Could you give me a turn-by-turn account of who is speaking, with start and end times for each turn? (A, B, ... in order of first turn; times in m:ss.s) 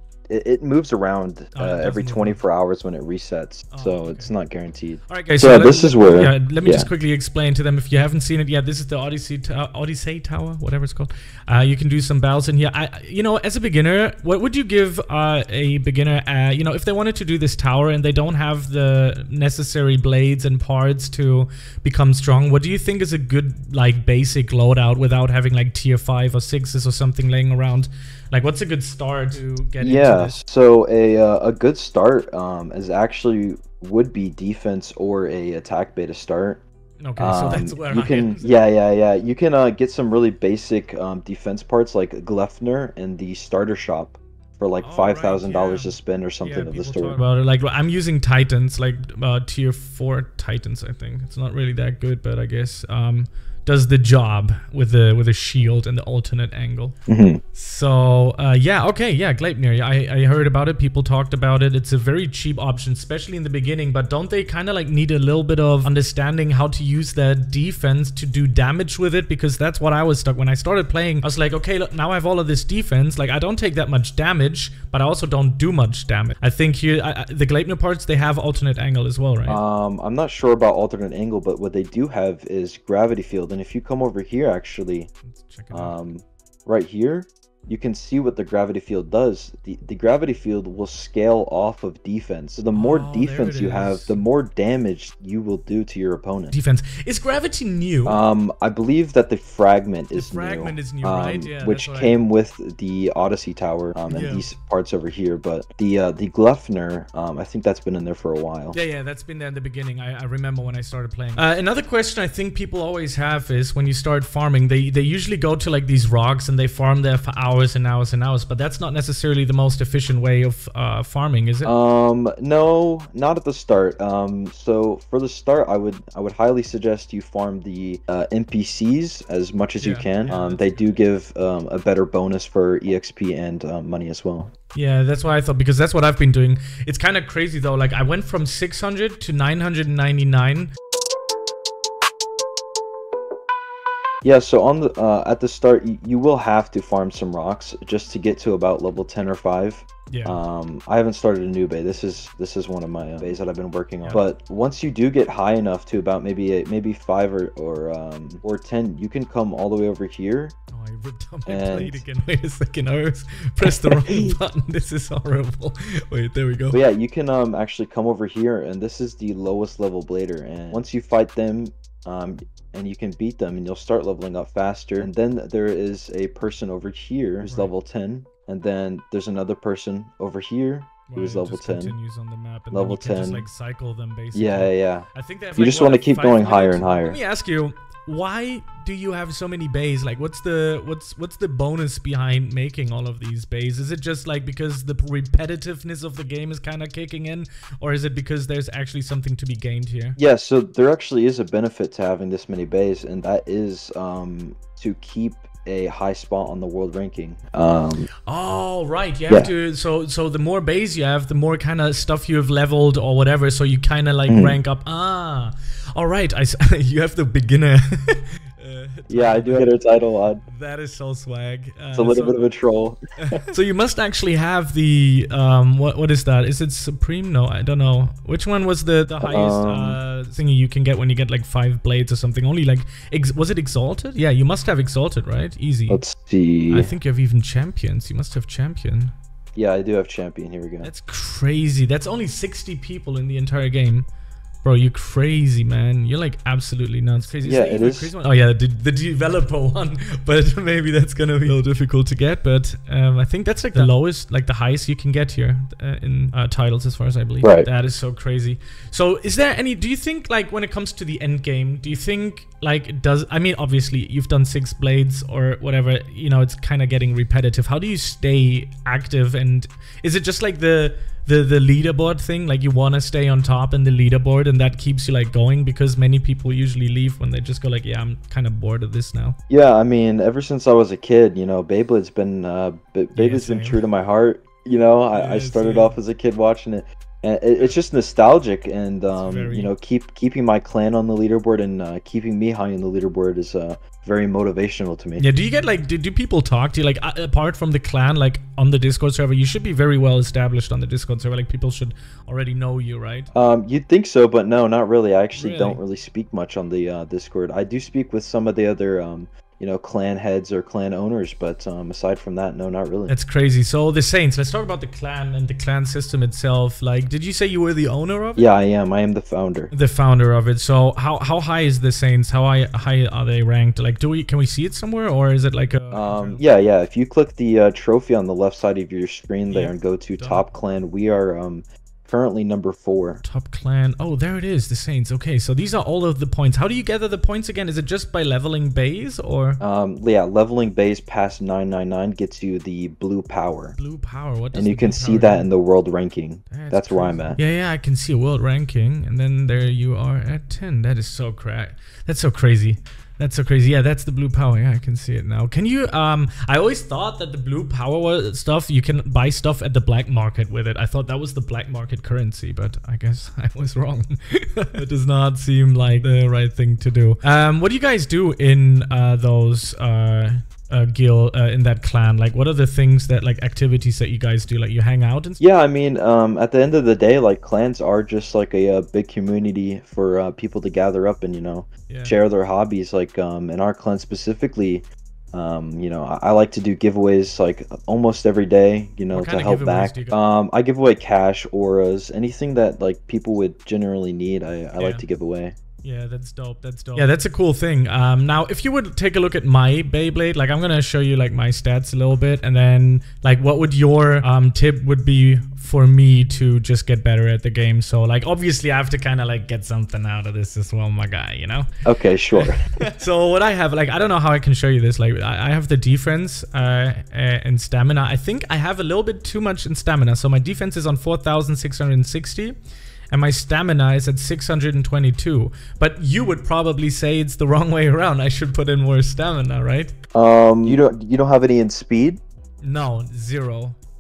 0:00.3-0:06.9 A
0:01.5-0:02.4 B
0:03.7-0:04.3 B
0:05.1-0:30.4 B
0:29.8-0:36.6 A
0:37.0-0:38.4 B
0:37.2-0:47.2 A
0:44.8-0:57.0 B
0:57.1-0:57.4 A
0:57.5-1:19.6 B
1:19.4-1:25.1 A
1:25.2-1:26.0 B
1:25.7-1:36.6 A
1:32.7-1:34.2 B
1:36.5-1:38.2 B
1:38.0-1:48.8 A
1:40.1-1:42.2 B
1:44.1-1:44.5 B
1:48.7-2:01.7 B
2:01.6-2:14.5 A
2:09.8-2:10.9 B
2:14.7-2:20.7 B
2:24.2-2:40.5 A
2:30.1-2:30.4 B
2:40.7-2:46.8 B
2:41.4-2:42.0 A
2:43.6-2:44.4 A
2:46.7-3:01.9 A
2:57.4-2:57.7 B
3:01.1-3:20.2 B
3:02.7-3:03.5 A
3:04.3-3:07.2 A
3:20.2-3:28.1 A
3:28.3-3:39.8 B
3:34.3-3:34.6 A
3:39.1-3:40.4 A
3:40.4-3:42.5 B
3:41.9-3:43.4 A
3:43.5-3:56.0 B
3:49.2-3:50.0 A
3:55.9-3:56.9 A
3:56.7-3:59.1 B
3:59.6-4:00.9 A
4:00.8-4:04.0 B
4:04.6-4:39.4 B
4:07.4-4:08.1 A
4:17.4-4:17.7 A
4:39.5-4:55.3 A
4:43.1-4:43.8 B
4:45.1-4:46.0 B
4:49.1-4:49.7 B
4:55.2-5:03.3 B
5:03.3-5:13.2 A
5:05.3-5:05.8 B
5:13.1-5:18.5 B
5:18.4-5:19.7 A
5:19.7-5:26.5 B
5:25.9-5:33.2 A
5:29.5-5:30.5 B
5:33.2-5:39.6 B
5:39.6-5:43.8 A
5:43.8-5:45.5 B
5:44.5-5:47.4 A
5:46.5-6:15.4 B
6:15.4-6:35.5 A
6:21.9-6:22.2 B
6:29.1-6:30.2 B
6:34.8-6:35.0 B
6:35.8-6:51.7 B
6:51.8-6:52.8 A
6:52.3-7:02.6 B
7:03.1-7:09.9 B
7:10.1-7:12.2 A
7:12.6-7:13.8 B